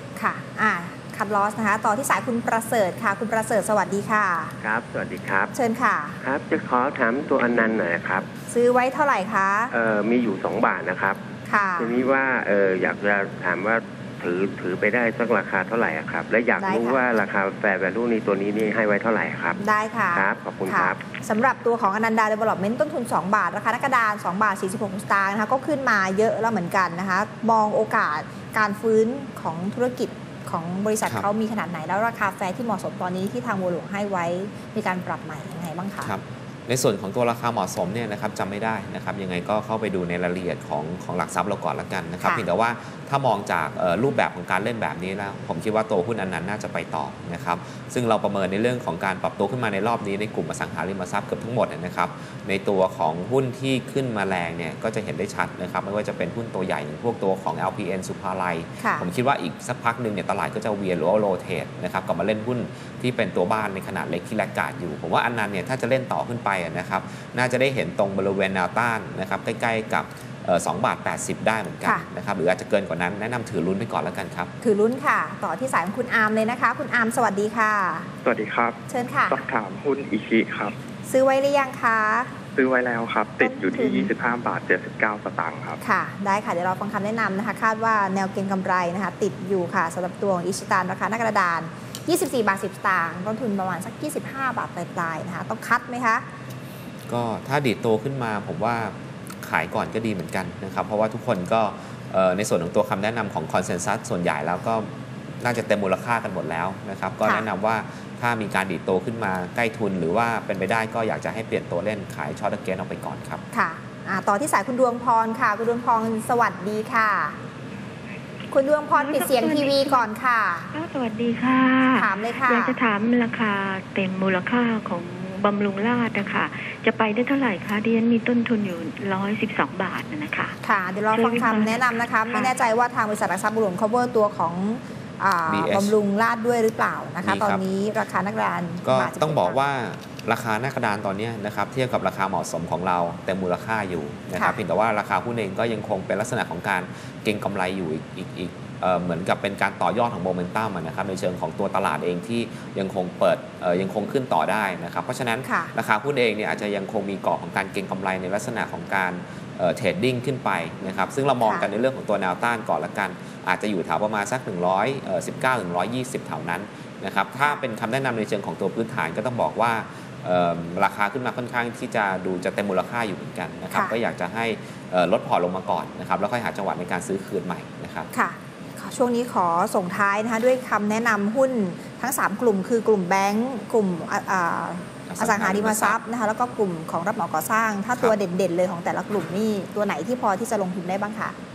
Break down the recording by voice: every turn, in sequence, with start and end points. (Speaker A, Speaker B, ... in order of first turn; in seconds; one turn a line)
Speaker A: 0.1-4.5
Speaker B: 4.6-5.5
Speaker A: 5.5-6.2
Speaker B: 6.2-8.2
Speaker A: 8.5-9.7
Speaker B: 9.7-11.2
Speaker A: 11.5-11.9
Speaker B: 11.8-19.6
Speaker A: 16.6-17.0
Speaker A: 19.6-36.1
Speaker B: 20.1-21.0
Speaker C: 36.0-74.5
Speaker A: 42.2-42.5
Speaker A: 58.8-59.1
Speaker A: 74.6-78.1
Speaker D: 78.2-78.8
Speaker A: 78.9-79.4
Speaker D: 79.3-80.7
Speaker A: 81.1-82.3
Speaker D: 82.5-85.8
Speaker A: 83.4-84.1
Speaker A: 85.8-96.2
Speaker C: 97.1-104.9
Speaker C: 105.4-113.4
Speaker A: 113.5-117.3
Speaker A: 118.5-120.7
Speaker E: 118.9-120.1
Speaker E: 120.7-130.5
Speaker A: 121.9-122.8
Speaker A: 130.6-139.6
Speaker E: 131.1-132.5
Speaker C: 135.5-135.9
Speaker C: 137.2-137.6
Speaker C: 138.8-178.1
Speaker A: 155.4-155.7
Speaker A: 161.4-161.7
Speaker A: 178.1-191.3
Speaker C: 185.1-186.0